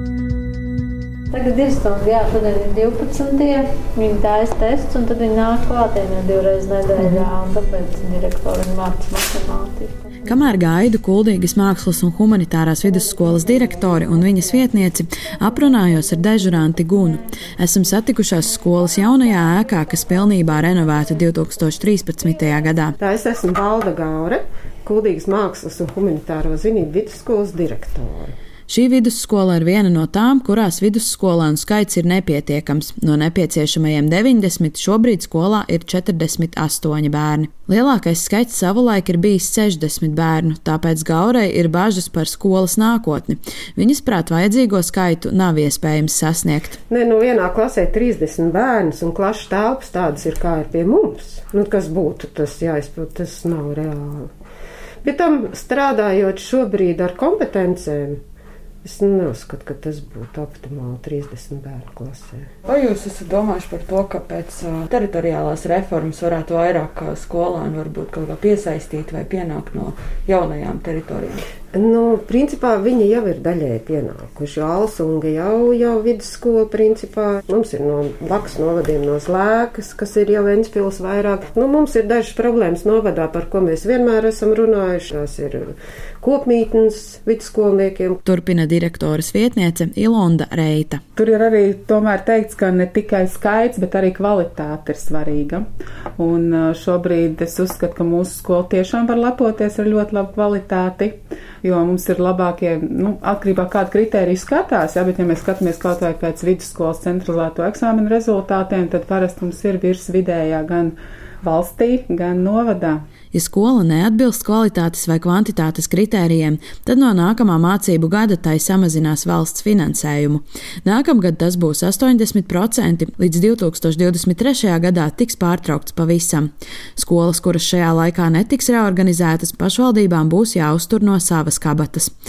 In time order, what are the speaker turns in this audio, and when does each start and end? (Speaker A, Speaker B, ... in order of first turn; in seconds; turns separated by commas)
Speaker A: 1.3-10.1, Speaker B: 10.3-23.0, Speaker C: 23.0-28.3, Speaker B: 28.7-46.8, Speaker C: 46.9-54.3, Speaker C: 55.0-58.2, Speaker C: 58.8-62.5, Speaker D: 63.5-64.2, Speaker D: 67.2-68.1, Speaker D: 69.3-70.8, Speaker C: 71.7-88.2, Speaker B: 88.2-91.0, Speaker E: 91.2-95.6, Speaker E: 96.2-113.0, Speaker B: 113.3-132.1